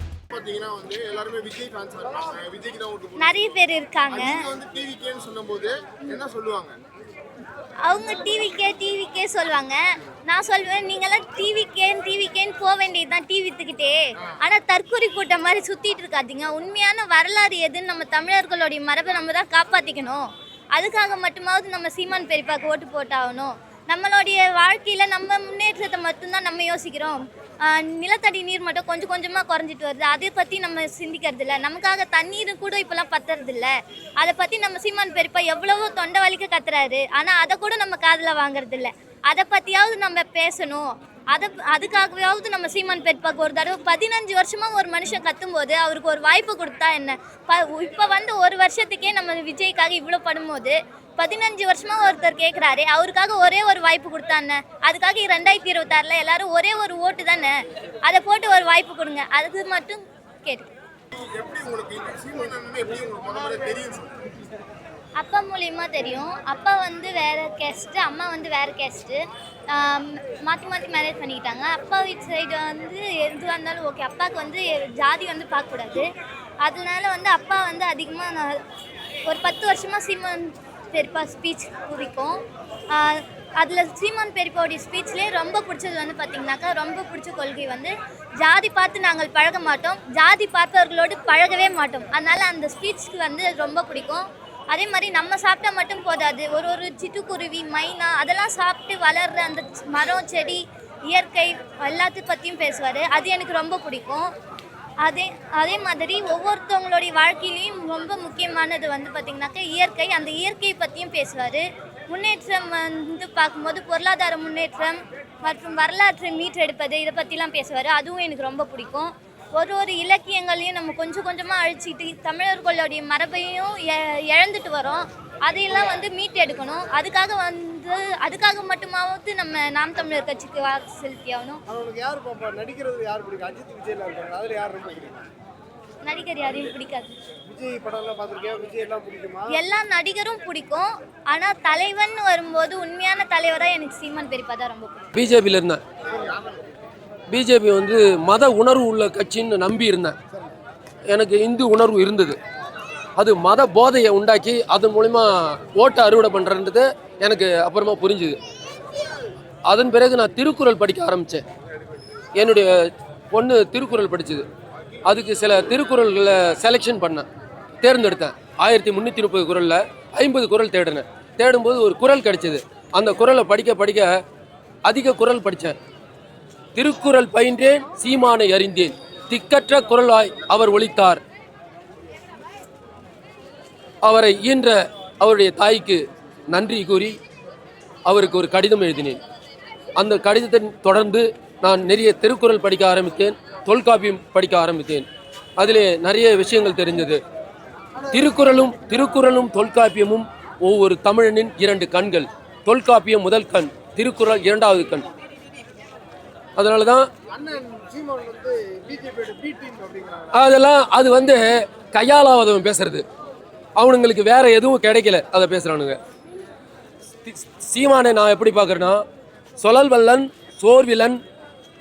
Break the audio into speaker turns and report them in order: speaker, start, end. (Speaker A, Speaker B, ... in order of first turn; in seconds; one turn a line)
Speaker A: 0.3-3.3
Speaker B: 3.2-4.5
Speaker A: 4.1-6.8
Speaker B: 7.8-60.7
Speaker A: 61.1-64.3
Speaker B: 65.2-76.1
Speaker B: 76.6-78.6
Speaker B: 79.3-104.3
Speaker B: 105.0-131.6
Speaker C: 131.7-135.3
Speaker B: 136.0-137.2
Speaker C: 137.5-139.6
Speaker B: 139.5-145.1
Speaker D: 145.2-145.8
Speaker C: 146.1-146.6
Speaker D: 147.3-150.2
Speaker D: 151.1-152.4
Speaker D: 153.2-158.4
Speaker D: 159.7-161.4
Speaker D: 162.4-164.5
Speaker D: 165.1-167.3
Speaker D: 167.8-174.2
Speaker D: 174.8-175.8
Speaker D: 176.8-181.2
Speaker D: 184.0-187.2
Speaker D: 188.1-189.2
Speaker D: 190.0-197.2
Speaker D: 198.1-205.1
Speaker D: 206.6-207.1
Speaker C: 207.3-210.4
Speaker D: 210.3-213.0
Speaker D: 213.8-216.0
Speaker D: 217.2-219.0
Speaker D: 219.6-221.2